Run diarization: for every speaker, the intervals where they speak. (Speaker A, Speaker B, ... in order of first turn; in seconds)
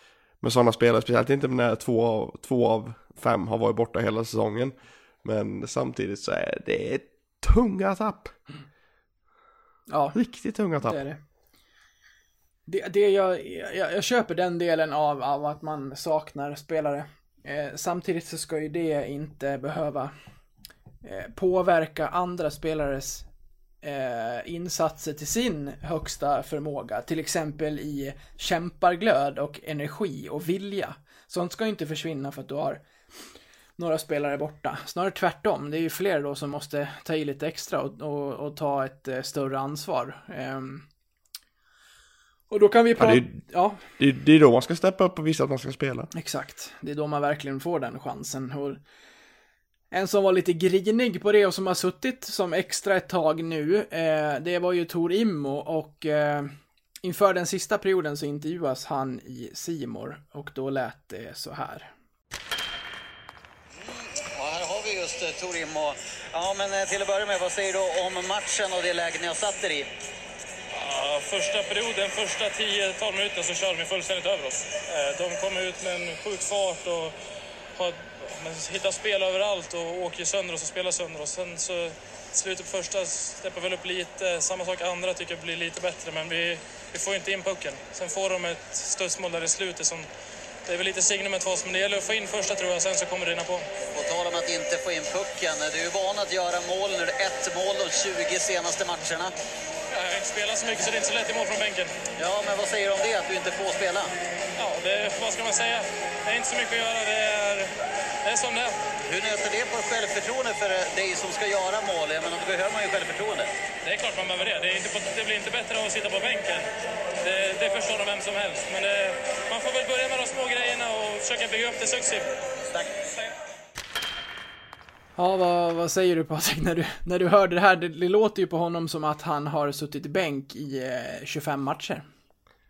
Speaker A: 0.4-8.3, 10.1-11.0, 43.0-46.1
Speaker B: 9.9-10.2, 10.8-11.2, 12.7-20.1, 21.0-23.2, 23.8-32.8, 33.8-40.8, 42.5-43.8, 46.1-48.8, 49.9-61.9, 125.2-132.0
Speaker C: 64.3-69.9, 93.9-99.3, 102.2-104.1, 109.0-113.5
Speaker D: 70.7-77.2, 77.8-90.1, 90.7-93.6, 99.9-101.9, 104.6-107.7, 108.2-108.7, 113.8-116.7, 117.2-122.3